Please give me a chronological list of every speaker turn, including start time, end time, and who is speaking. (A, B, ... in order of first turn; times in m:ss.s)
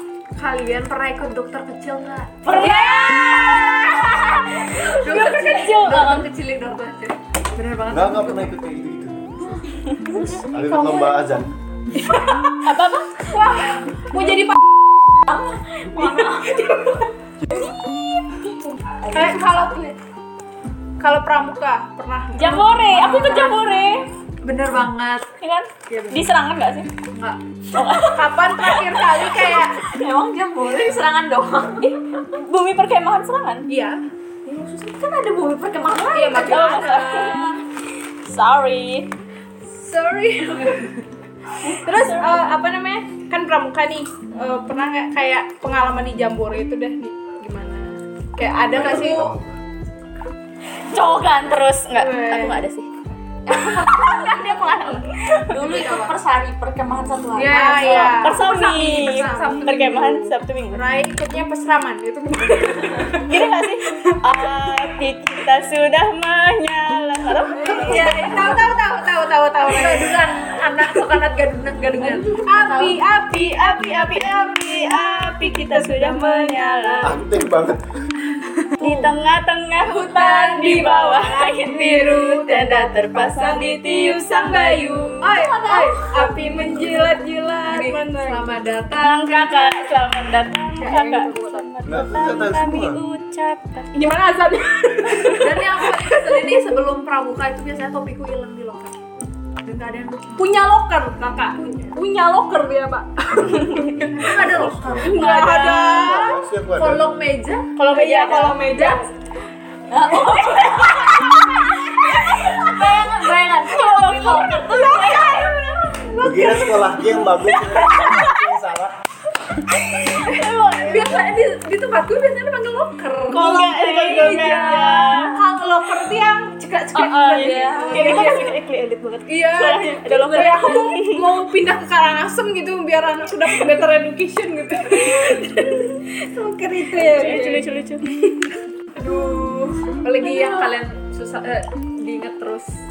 0:00.4-0:02.8 A
0:02.4-0:06.3 B
0:02.5-0:03.2 C
0:04.6-0:08.5 A
0:07.9-0:09.2 D
0:09.4-0:11.4 C
0:10.5-0:11.5 D
0:12.6-0:13.3 B
0:13.3-0:14.6 E
0:15.2-0:16.6 C
0:16.1-0:17.0 E
0:18.3-0:19.9 C
0:19.1-0:19.9 E
0:21.0-0:22.8 E
0:22.4-0:24.1 B
0:22.9-0:23.9 A
0:24.4-0:25.2 A
0:25.4-0:26.9 B
0:25.9-0:26.2 E
0:27.1-0:27.4 A
0:27.8-0:28.8 B
0:27.9-0:29.9 E
0:29.7-0:31.9 C
0:31.8-0:33.7 B
0:33.7-0:34.0 E
0:34.4-0:36.6 C
0:36.1-0:37.6 E
0:36.3-0:37.5 B
0:38.3-0:39.1 B
0:39.7-0:41.0 E
0:41.6-0:42.4 B
0:41.6-0:49.3 E
0:48.6-0:49.6 D
0:50.9-0:52.9 B
0:51.9-0:52.6 E
0:53.5-0:54.6 C
0:53.5-0:55.8 B
0:55.5-0:58.2 C
0:55.5-0:56.1 E
0:57.4-0:59.8 A
0:57.4-1:04.2 E
0:57.9-1:00.8 B
1:03.2-1:08.7 B
1:07.5-1:10.3 E
1:07.6-1:08.6 A
1:09.6-1:12.4 A
1:11.9-1:13.0 C
1:12.4-1:17.2 E
1:13.3-1:17.2 B
1:17.0-1:17.8 D
1:18.8-1:19.1 C
1:18.8-1:25.2 B
1:19.8-1:28.5 E
1:25.2-1:26.6 A
1:25.2-1:27.0 C
1:27.7-1:29.8 A
1:28.9-1:33.9 B
1:30.8-1:31.5 E
1:30.9-1:31.3 A
1:31.8-1:33.0 D
1:33.9-1:36.5 E
1:35.4-1:39.0 A
1:39.6-1:40.5 A
1:40.4-1:44.0 E
1:43.4-1:45.2 D
1:44.1-1:46.2 A
1:45.0-1:46.3 B
1:45.0-1:46.3 E
1:45.9-1:47.1 D
1:46.8-1:47.7 A
1:47.8-1:48.8 B
1:47.8-1:49.1 E
1:48.6-1:49.0 A
1:49.9-1:56.7 C
1:50.2-1:51.4 B
1:52.3-1:55.5 B
1:56.2-1:58.9 D
1:57.7-1:58.3 C
1:57.9-1:58.2 B
1:59.9-2:01.2 B
2:00.8-2:04.5 A
2:03.3-2:05.4 B
2:03.3-2:08.5 E
2:06.9-2:11.3 B
2:07.0-2:08.3 C
2:09.3-2:18.5 E
2:16.9-2:18.0 B
2:19.0-2:22.7 A
2:19.1-2:19.9 E
2:20.1-2:20.6 C